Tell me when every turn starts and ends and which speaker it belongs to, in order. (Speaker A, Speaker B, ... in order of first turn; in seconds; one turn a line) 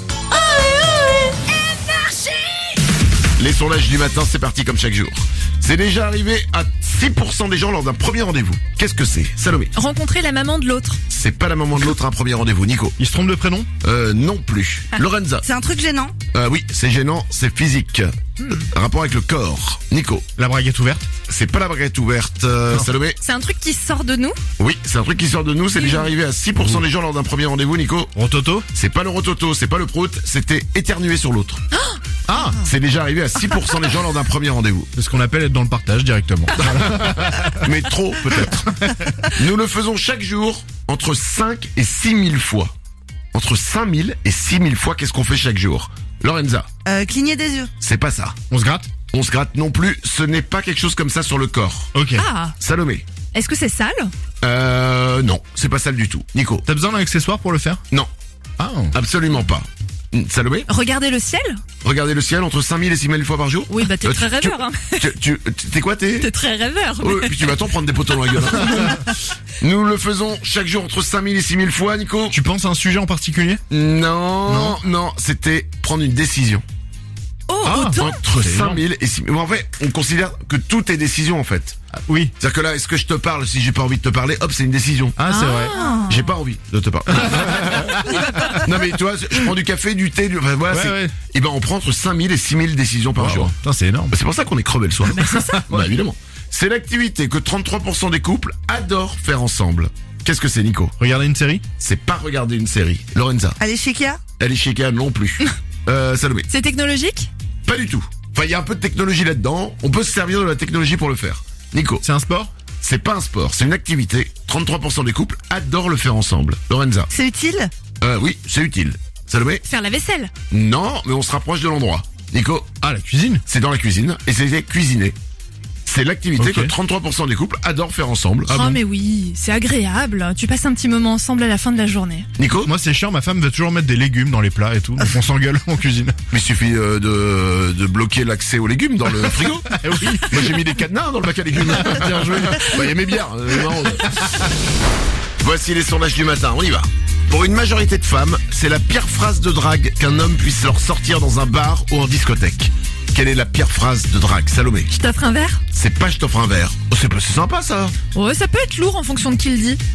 Speaker A: 3.4-9.7
Speaker B: 9.7-11.0
Speaker A: 11.1-13.0
Speaker C: 13.0-13.7
Speaker A: 13.8-15.4
Speaker D: 15.4-16.1
Speaker A: 16.3-20.3
Speaker B: 18.4-18.6
Speaker C: 20.4-21.1
Speaker A: 21.3-23.2
Speaker B: 23.2-24.4
Speaker A: 24.6-28.1
Speaker B: 25.8-26.1
Speaker C: 28.1-28.7
Speaker A: 28.7-31.6
Speaker B: 31.7-32.0
Speaker C: 32.3-32.6
Speaker A: 32.6-34.9
Speaker C: 35.0-37.7
Speaker A: 36.6-36.8
Speaker A: 37.6-38.7
Speaker C: 38.7-39.1
Speaker A: 39.3-42.7
Speaker A: 43.3-46.7
Speaker D: 46.9-47.7
Speaker A: 47.8-48.4
Speaker C: 48.5-48.9
Speaker A: 49.1-51.9
Speaker C: 51.9-52.2
Speaker B: 52.1-52.5
Speaker A: 52.6-53.1
Speaker B: 53.3-54.1
Speaker A: 54.4-56.6
Speaker C: 56.6-57.8
Speaker C: 58.6-59.0
Speaker A: 58.9-60.7
Speaker B: 60.7-61.6
Speaker A: 61.8-66.3
Speaker B: 63.7-65.1
Speaker B: 66.2-68.5
Speaker A: 67.0-72.3
Speaker C: 72.3-73.6
Speaker A: 73.7-76.6
Speaker C: 74.5-74.8
Speaker B: 77.5-78.1
Speaker C: 77.6-78.8
Speaker A: 78.0-81.8
Speaker C: 82.1-82.3
Speaker A: 82.4-85.2
Speaker C: 85.2-85.7
Speaker B: 85.3-86.1
Speaker D: 85.4-86.1
Speaker A: 86.0-88.0
Speaker C: 87.1-88.7
Speaker A: 88.6-93.5
Speaker C: 90.7-91.1
Speaker C: 93.2-94.1
Speaker A: 94.1-100.9
Speaker C: 95.1-95.8
Speaker B: 95.2-95.5
Speaker C: 101.0-101.6
Speaker A: 101.8-103.6
Speaker D: 103.6-104.2
Speaker A: 104.4-106.5
Speaker B: 106.5-107.3
Speaker A: 107.7-112.0
Speaker C: 112.0-112.5
Speaker A: 112.8-117.1
Speaker D: 117.1-117.7
Speaker A: 118.0-119.6
Speaker B: 119.6-120.3
Speaker A: 120.5-122.8
Speaker C: 122.8-123.4
Speaker A: 123.5-125.2
Speaker A: 125.8-128.8
Speaker C: 126.4-126.7
Speaker B: 128.5-132.3
Speaker A: 132.3-132.7
Speaker C: 132.6-136.1
Speaker A: 136.3-144.4
Speaker C: 139.7-140.8
Speaker C: 141.6-143.1
Speaker C: 143.7-144.1
Speaker A: 145.4-154.9
Speaker B: 154.9-155.6
Speaker A: 155.7-157.9
Speaker B: 158.1-159.8